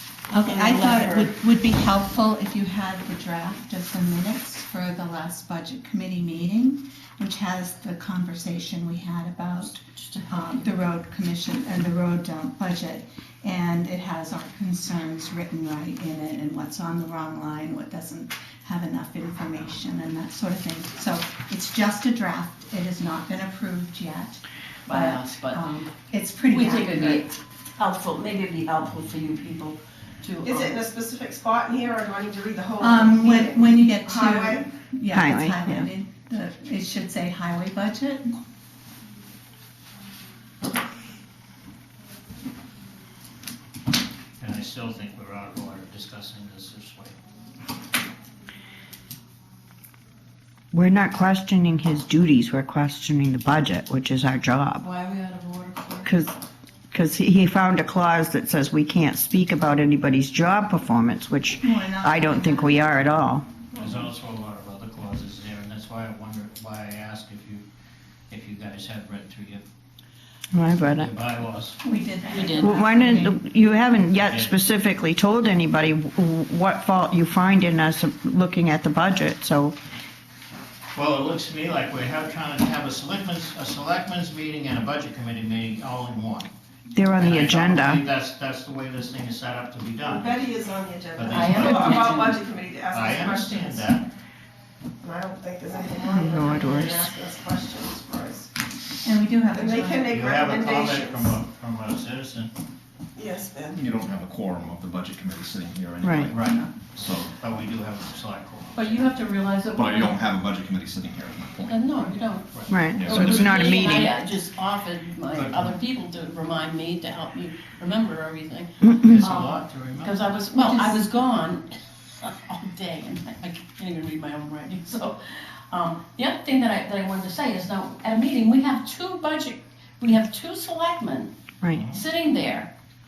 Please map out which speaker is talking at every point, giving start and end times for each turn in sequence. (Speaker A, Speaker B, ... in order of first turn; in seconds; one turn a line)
Speaker A: 0.3-27.2
Speaker B: 0.3-1.4
Speaker B: 9.7-10.7
Speaker B: 24.9-25.6
Speaker B: 26.5-30.8
Speaker C: 30.5-34.7
Speaker A: 32.8-38.3
Speaker D: 35.1-35.9
Speaker E: 44.4-47.2
Speaker D: 50.7-54.8
Speaker B: 54.8-56.1
Speaker D: 56.0-56.4
Speaker D: 56.9-63.5
Speaker A: 61.6-62.9
Speaker E: 63.7-67.7
Speaker E: 68.3-69.7
Speaker D: 70.5-71.1
Speaker E: 70.8-71.8
Speaker A: 71.8-73.4
Speaker B: 72.3-73.0
Speaker D: 72.6-79.8
Speaker E: 74.1-74.5
Speaker E: 81.0-86.5
Speaker D: 87.0-88.0
Speaker E: 87.2-90.5
Speaker C: 90.0-93.9
Speaker E: 91.2-92.4
Speaker B: 91.3-92.3
Speaker E: 92.9-94.1
Speaker C: 95.0-98.5
Speaker D: 96.0-97.1
Speaker A: 99.0-100.1
Speaker C: 99.5-101.4
Speaker E: 100.0-102.5
Speaker C: 103.2-103.8
Speaker F: 103.7-107.4
Speaker D: 106.0-106.3
Speaker E: 106.3-109.1
Speaker A: 106.5-106.7
Speaker B: 108.8-110.2
Speaker F: 109.7-112.3
Speaker B: 111.7-131.3
Speaker E: 112.5-112.9
Speaker D: 112.7-114.1
Speaker F: 112.9-114.1
Speaker E: 115.3-115.8
Speaker E: 118.9-120.3
Speaker A: 120.6-121.0
Speaker E: 131.7-132.0
Speaker B: 131.9-132.7